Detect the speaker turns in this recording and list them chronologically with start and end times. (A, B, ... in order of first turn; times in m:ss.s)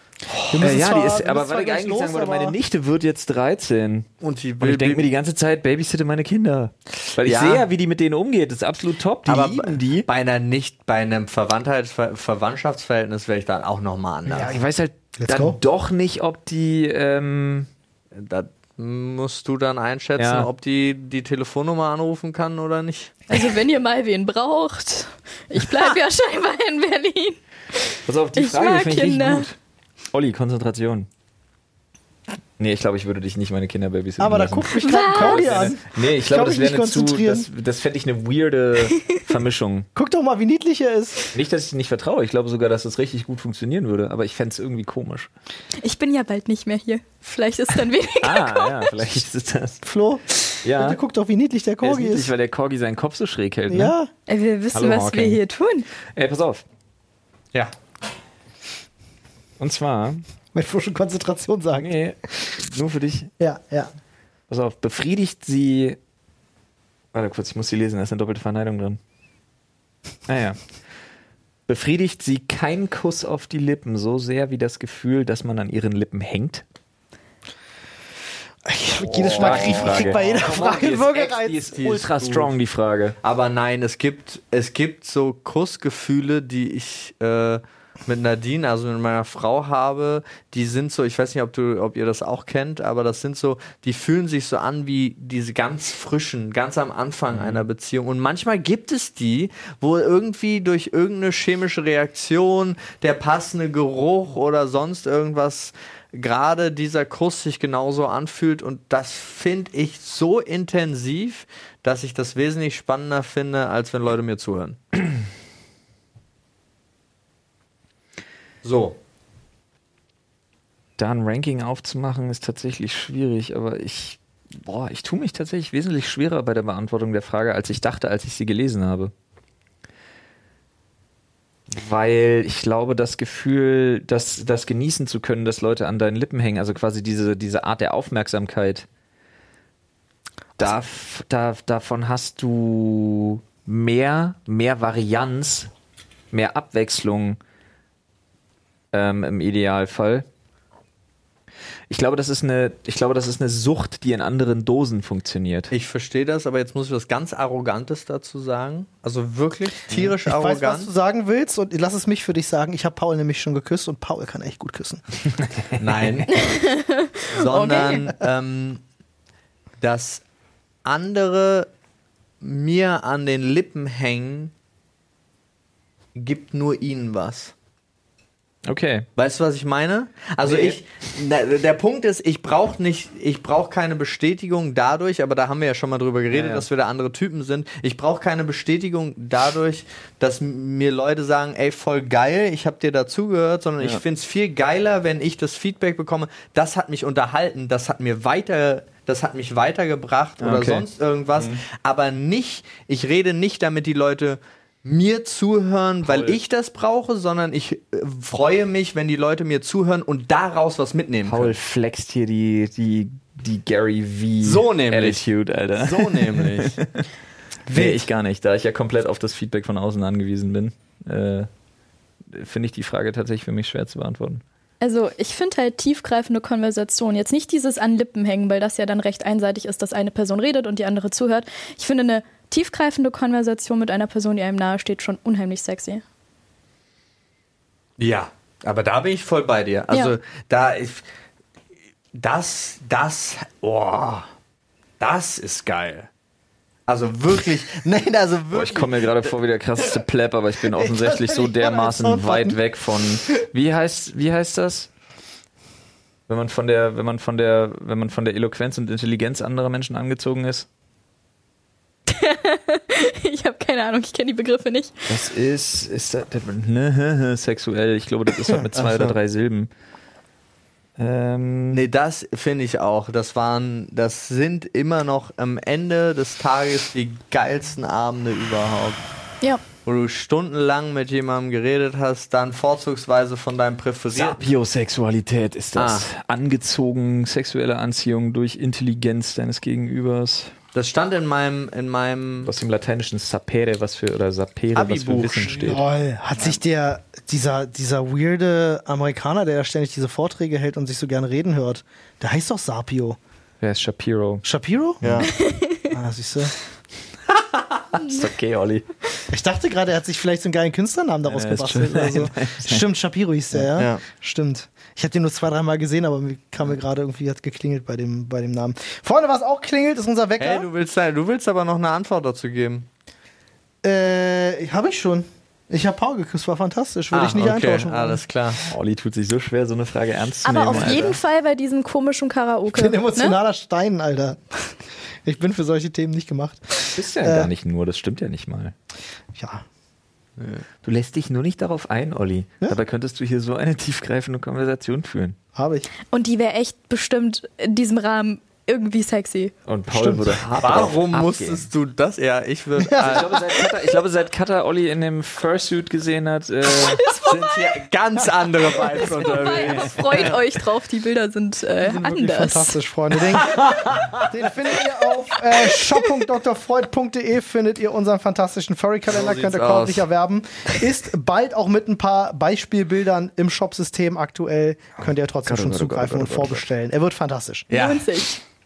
0:00.3-0:04.1 A
0:00.5-0:02.6 B
0:04.2-0:05.0 C
0:04.6-0:10.1 A
0:07.2-0:07.7 C
0:09.3-0:14.6 C
0:14.3-0:17.7 A
0:15.2-0:15.6 B
0:18.2-0:23.3 C
0:20.2-0:20.5 A
0:23.3-0:29.5 D
0:28.1-0:29.6 A
0:30.1-0:31.1 A
0:32.6-0:39.9 A
0:34.2-0:37.5 B
0:34.8-0:35.5 D
0:40.0-0:41.3 B
0:41.3-0:45.3 A
0:45.8-0:48.9 D
0:48.2-0:49.8 A
0:49.8-0:52.3 B
0:50.6-0:51.0 A
0:51.8-0:53.9 A
0:53.7-0:54.1 B
0:54.3-0:55.9 D
0:54.7-0:55.4 A
0:56.1-0:56.6 A
0:59.6-1:00.2 A
1:00.5-1:01.9 B
1:01.8-1:03.3 A
1:03.4-1:03.9 B
1:04.5-1:06.0 A
1:07.1-1:09.0 A
1:10.3-1:10.6 A
1:11.7-1:16.6 A
1:18.6-1:21.6 B
1:19.0-1:20.2 C
1:19.2-1:23.2 A
1:21.7-1:22.5 C
1:23.2-1:54.8 C
1:37.3-1:37.6 A
1:58.6-1:59.0 C
2:01.0-2:09.1 A
2:11.7-2:18.9 A
2:20.6-2:25.7 A
2:26.3-2:27.4 A
2:28.9-2:30.3 A
2:31.9-2:35.7 A
2:35.7-2:40.9 C
2:39.9-2:45.0 B
2:45.6-2:46.2 A
2:45.8-2:46.3 C
2:46.3-2:48.1 D
2:47.3-2:48.8 C
2:49.8-2:50.2 C
2:50.8-2:51.7 C
2:52.4-2:54.5 C
2:56.2-2:57.5 C
2:58.7-2:59.1 A
2:59.2-3:31.5 C
3:00.4-3:00.8 A
3:06.3-3:06.7 A
3:20.4-3:21.6 A
3:26.0-3:26.4 A
3:31.3-3:37.1 A
3:34.4-3:35.2 C
3:35.8-3:36.8 C
3:37.7-3:38.1 B
3:37.7-3:41.5 A
3:42.3-3:44.4 A
3:44.8-3:56.0 D
3:58.0-4:01.0 C
4:02.1-4:04.3 C
4:05.0-4:06.1 C
4:06.9-4:09.3 C
4:08.5-4:14.9 A
4:10.7-4:12.6 B
4:16.3-4:20.7 A
4:22.1-4:25.1 D
4:25.1-4:29.7 A
4:28.7-4:29.2 C
4:31.0-4:31.8 A
4:31.7-4:39.0 C
4:39.8-4:44.4 C
4:44.1-4:50.5 A
4:45.8-4:46.1 C
4:50.7-4:52.5 C
4:52.4-4:55.8 A
4:54.7-4:55.8 C
4:55.6-5:03.2 B
5:03.6-5:04.4 A
5:04.4-5:05.1 B
5:05.0-5:05.3 C
5:05.3-5:05.9 D
5:05.9-5:06.5 B
5:07.9-5:08.9 A
5:09.3-5:20.7 B
5:11.3-5:12.9 A
5:13.8-5:14.0 C
5:20.4-5:22.9 C
5:23.8-5:28.2 B
5:27.1-5:28.6 C
5:28.6-5:31.2 A
5:30.4-5:33.4 D
5:32.7-5:37.5 B
5:36.9-5:38.7 A
5:39.3-5:39.6 B
5:40.4-5:40.6 C
5:40.8-5:45.4 A
5:45.6-5:45.9 B
5:46.1-5:49.5 D
5:49.7-5:51.7 A
5:49.9-5:50.4 B
5:50.6-5:53.4 C
5:52.8-5:53.4 B
5:53.0-5:57.0 A
5:56.7-5:57.8 D
5:57.1-6:00.4 C
5:59.2-6:02.8 D
5:59.4-6:00.3 A
6:01.8-6:17.7 B
6:03.4-6:04.3 A
6:09.1-6:10.1 C
6:15.4-6:16.6 A
6:17.7-6:18.4 D
6:17.7-6:18.1 C